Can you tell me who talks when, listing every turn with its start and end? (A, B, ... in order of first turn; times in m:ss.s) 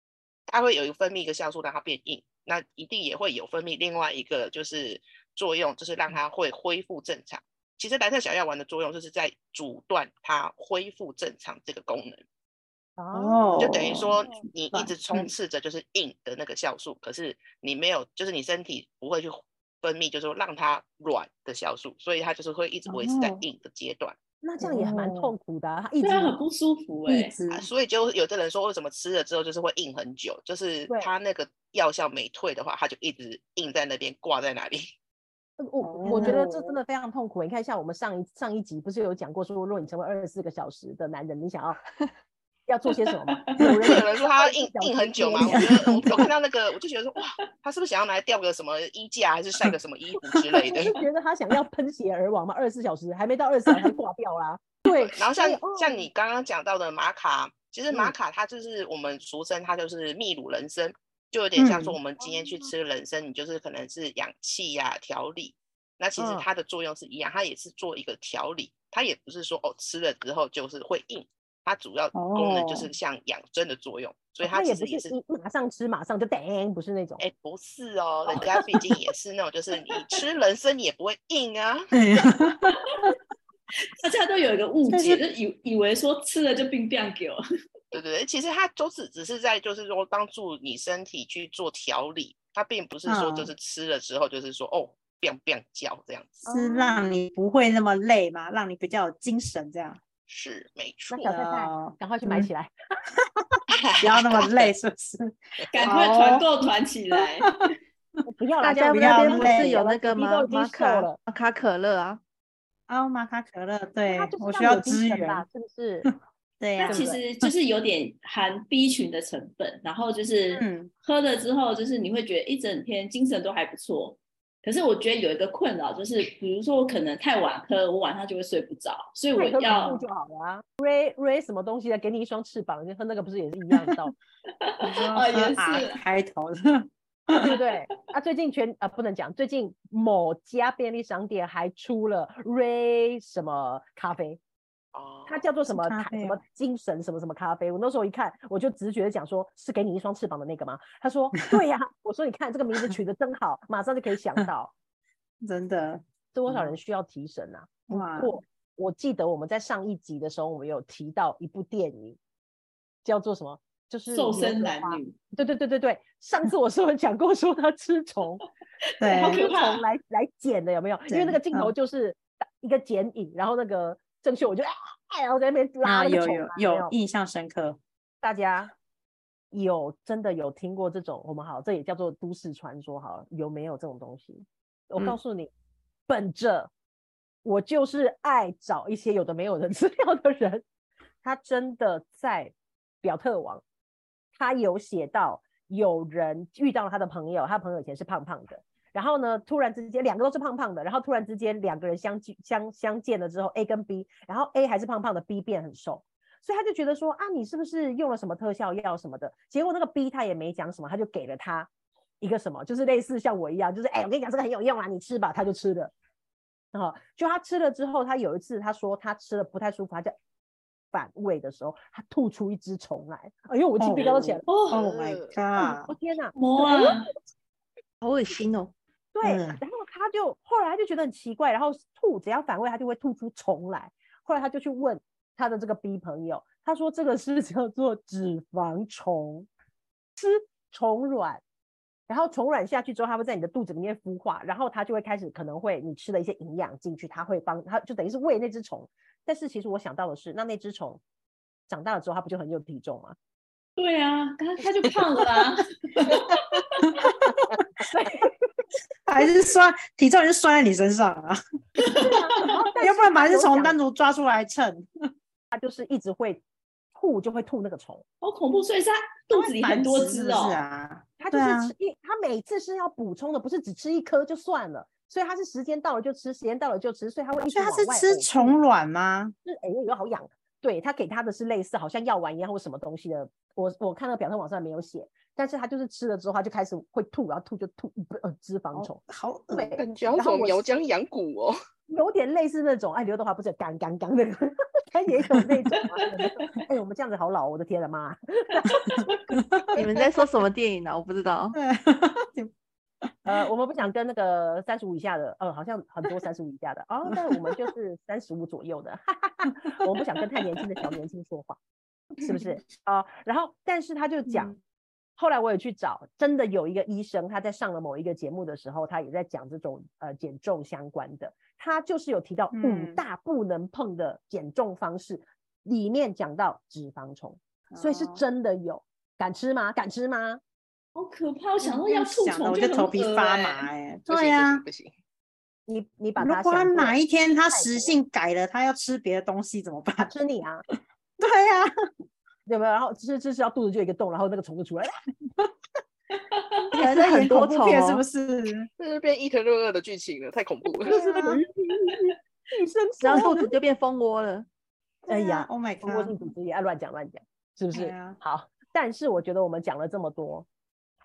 0:00.5-0:12.2 A
0:13.0-0:14.0 B
0:13.1-0:14.2 C
0:13.6-0:24.2 A
0:14.7-0:15.3 C
0:22.9-0:23.4 C
0:24.4-0:26.4 B
0:24.6-0:25.3 C
0:26.0-0:27.3 D
0:27.1-0:27.7 C
0:27.5-0:34.8 A
0:35.6-0:41.8 B
0:35.8-0:36.8 C
0:42.7-0:46.2 B
0:43.6-0:51.0 A
0:45.4-0:46.2 C
0:50.6-0:56.1 B
0:54.9-1:15.1 A
1:01.6-1:02.0 C
1:02.2-1:02.7 B
1:06.2-1:06.5 B
1:12.1-1:12.9 C
1:14.4-1:17.2 B
1:17.2-1:21.9 A
1:21.9-1:22.7 C
1:23.8-1:27.4 D
1:24.9-1:25.2 C
1:27.9-1:36.5 A
1:33.1-1:33.5 C
1:36.4-1:37.0 B
1:36.5-1:40.0 C
1:40.3-1:41.3 A
1:41.1-1:42.7 B
1:41.2-1:42.5 C
1:43.7-1:44.7 A
1:44.0-1:46.5 C
1:45.7-1:47.5 D
1:48.3-1:51.2 B
1:48.6-1:52.2 E
1:48.6-1:49.8 C
1:52.9-1:55.4 C
1:54.1-1:56.1 B
1:56.6-1:57.5 C
1:56.8-2:10.0 D
1:56.9-1:57.2 B
2:00.5-2:00.9 C
2:09.4-2:14.1 B
2:14.6-2:16.0 D
2:14.8-2:17.5 C
2:17.4-2:24.4 B
2:24.9-2:25.5 A
2:25.3-2:34.7 B
2:25.7-2:26.4 C
2:35.4-2:36.8 C
2:36.3-2:42.2 B
2:37.9-2:38.3 C
2:43.0-2:48.5 B
2:44.1-2:45.2 D
2:49.0-2:49.4 C
2:49.0-2:49.8 D
2:49.2-2:56.9 B
2:51.1-2:51.7 C
2:55.8-2:57.8 C
2:58.2-2:58.7 B
2:59.5-3:05.5 B
3:06.1-3:06.7 B
3:07.4-3:10.6 B
3:11.2-3:13.6 B
3:14.4-3:31.7 B
3:32.2-3:35.9 B
3:36.7-3:40.2 B
3:40.9-3:44.4 B
3:43.8-3:45.9 C
3:44.5-3:44.8 D
3:44.7-3:45.3 A
3:45.6-3:47.1 B
3:46.4-3:47.1 D
3:48.0-3:48.8 E
3:49.1-3:59.5 B
3:49.2-3:49.6 C
4:00.2-4:01.4 B
4:02.1-4:11.0 B
4:11.7-4:13.2 B
4:13.8-4:17.0 D
4:17.8-4:18.4 B
4:19.1-4:21.4 C
4:21.8-4:22.2 D
4:22.0-4:23.8 B
4:22.8-4:24.9 C
4:25.5-4:26.4 B
4:27.0-4:28.0 B
4:28.2-4:30.6 D
4:29.3-4:31.7 C
4:31.2-4:38.6 B
4:37.4-4:39.3 C
4:39.4-4:50.7 B
4:48.7-4:49.8 C
4:49.8-4:51.6 A
4:51.9-4:59.0 B
4:58.9-4:59.6 D
4:59.8-5:01.6 E
5:01.5-5:02.5 C
5:03.3-5:11.6 B
5:12.2-5:14.6 B
5:15.2-5:30.4 B
5:22.5-5:23.0 C
5:27.7-5:28.2 C
5:31.0-5:33.7 D
5:31.6-5:34.6 C
5:34.1-5:34.9 A
5:35.7-5:37.0 B
5:36.2-5:40.1 C
5:37.5-5:38.0 B
5:40.0-5:40.6 B
5:41.2-5:41.7 C
5:42.5-5:44.9 B
5:46.3-5:46.6 D
5:46.7-5:48.7 C
5:46.7-5:48.0 E
5:48.8-5:51.0 A
5:50.8-5:51.4 C
5:50.8-5:53.5 B
5:53.0-5:54.5 E
5:55.1-5:56.2 C
5:55.1-6:00.5 B
5:57.7-5:58.2 C